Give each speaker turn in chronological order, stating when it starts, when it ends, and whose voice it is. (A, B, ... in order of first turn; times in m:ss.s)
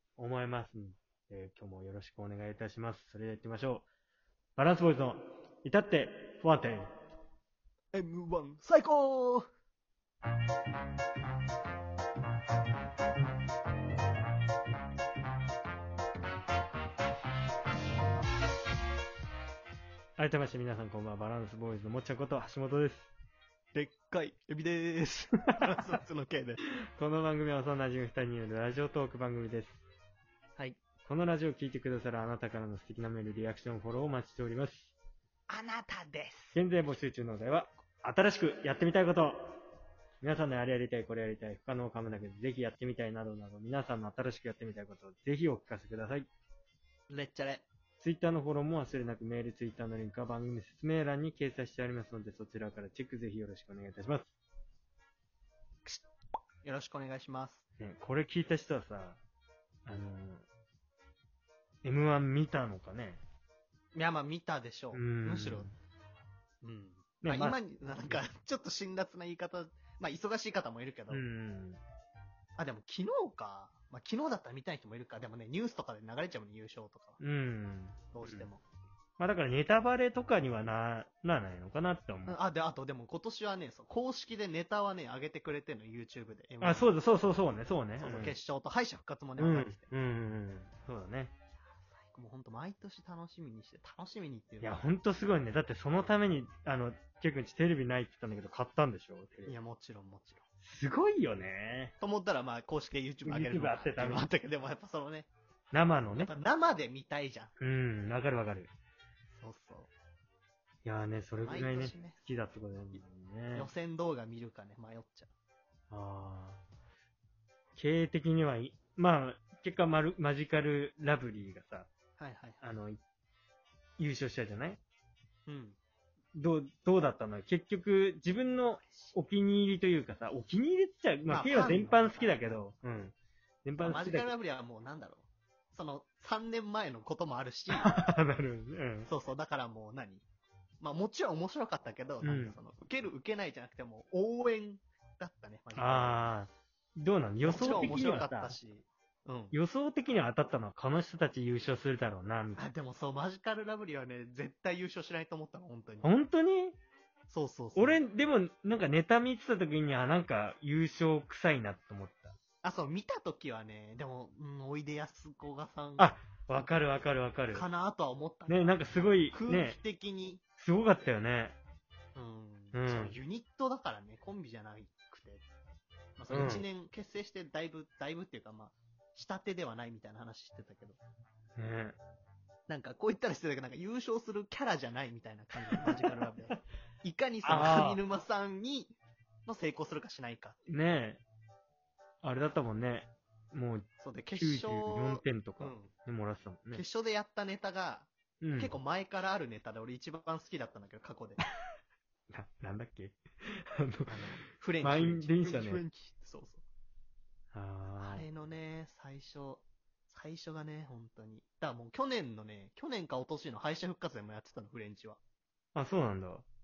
0:00.2-0:03.9 A
0:04.6-0:06.9 A
0:07.9-0:09.5 B
0:20.2-0:23.1 A
0:23.7-0:26.6 B
0:27.0-0:29.8 A
0:31.0-0:34.9 A
0:35.5-0:36.6 B
0:36.5-0:39.5 A
0:40.2-0:46.3 A
0:47.1-0:47.6 B
0:48.0-0:54.3 A
0:56.6-0:57.6 B
0:57.8-0:59.2 A
0:59.8-1:00.4 A
1:01.8-1:03.2 A
1:03.9-1:05.7 B
1:04.9-1:05.7 A
1:06.6-1:11.2 B
1:07.2-1:08.2 A
1:11.1-1:11.8 A
1:12.6-1:17.2 B
1:17.2-1:18.5 A
1:18.1-1:18.6 B
1:19.2-1:22.4 A
1:22.3-1:26.9 B
1:26.6-1:28.3 A
1:28.0-1:29.9 B
1:29.4-1:31.3 A
1:31.8-1:34.8 B
1:34.6-1:39.5 A
1:39.4-1:40.4 B
1:40.6-1:41.9 A
1:42.0-1:45.3 B
1:43.2-1:44.2 A
1:45.7-1:46.3 A
1:46.1-1:47.5 B
1:47.6-1:48.7 A
1:49.4-1:49.9 B
1:50.8-1:53.7 A
1:51.4-1:52.2 B
1:53.5-1:55.3 B
1:55.9-1:56.6 A
1:57.8-2:01.9 A
2:02.2-2:02.6 B
2:02.6-2:03.0 A
2:04.0-2:04.8 A
2:05.5-2:05.8 B
2:06.3-2:14.3 A
2:08.8-2:09.2 B
2:11.3-2:12.4 B
2:13.8-2:17.9 B
2:17.7-2:19.1 A
2:19.0-2:20.2 B
2:20.8-2:26.3 B
2:22.2-2:22.6 A
2:25.8-2:28.5 A
2:27.4-2:29.5 B
2:29.5-2:32.6 A
2:32.6-2:36.1 B
2:36.0-2:36.8 A
2:37.3-2:38.0 B
2:37.8-2:42.4 A
2:42.6-2:46.1 B
2:46.0-2:47.7 A
2:47.5-2:50.4 B
2:48.5-2:49.8 A
2:50.6-2:51.6 A
2:52.1-2:55.4 B
2:52.7-2:53.2 A
2:56.2-3:01.0 B
2:56.3-2:56.6 A
3:01.6-3:02.0 A
3:02.7-3:10.6 B
3:05.7-3:06.2 A
3:07.4-3:08.0 A
3:10.7-3:11.2 A
3:12.2-3:13.9 A
3:14.0-3:15.9 B
3:14.4-3:16.8 A
3:16.7-3:21.4 B
3:18.4-3:18.7 A
3:22.3-3:24.2 A
3:24.1-3:26.6 B
3:24.8-3:25.8 A
3:27.5-3:28.2 A
3:28.0-3:35.2 B
3:35.7-3:36.4 A